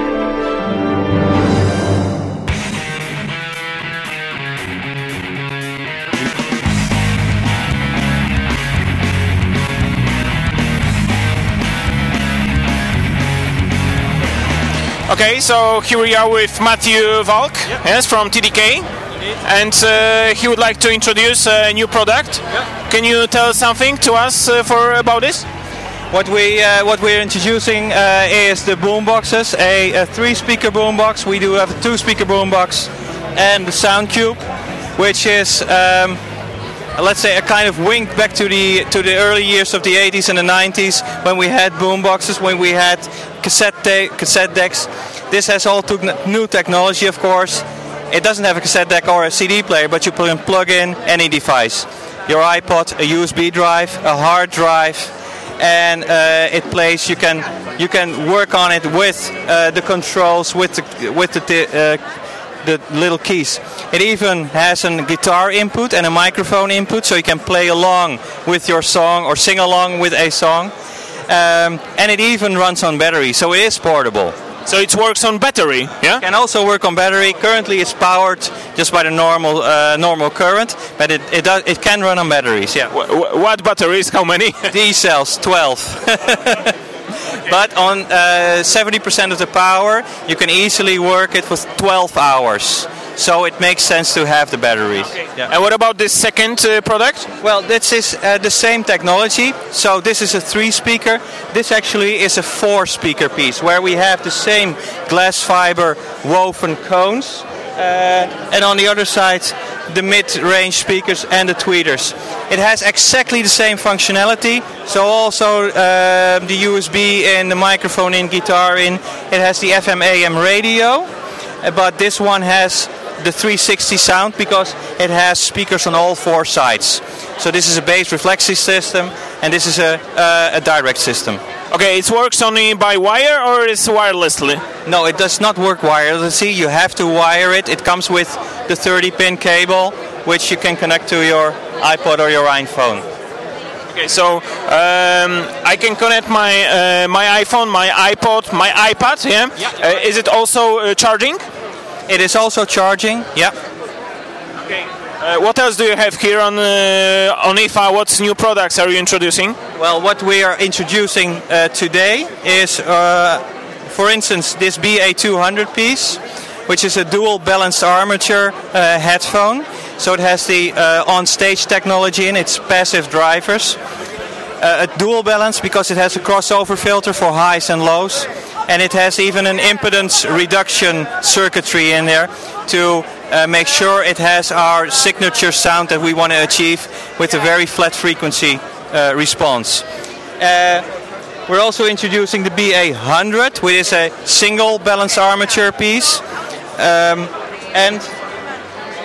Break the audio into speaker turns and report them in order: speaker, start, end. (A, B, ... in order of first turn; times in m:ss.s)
0:15.1-0:18.9 A
0:19.4-0:25.4 A
0:26.1-0:34.4 B
0:35.0-0:36.2 B
0:36.9-1:02.0 B
1:02.6-1:10.7 B
1:11.3-1:14.4 B
1:14.6-1:16.2 A
1:16.2-1:22.9 B
1:22.9-1:24.7 A
1:24.7-1:35.5 B
1:35.4-1:37.3 A
1:37.4-2:01.1 B
2:01.6-2:11.4 B
2:11.7-2:14.6 A
2:14.8-2:23.0 B
2:23.9-2:31.4 A
2:32.1-2:33.6 B
2:34.6-2:39.6 A
2:39.8-2:53.8 B
2:54.6-3:09.8 B
3:10.4-3:10.8 B
3:11.5-3:16.2 B
3:16.8-3:18.1 B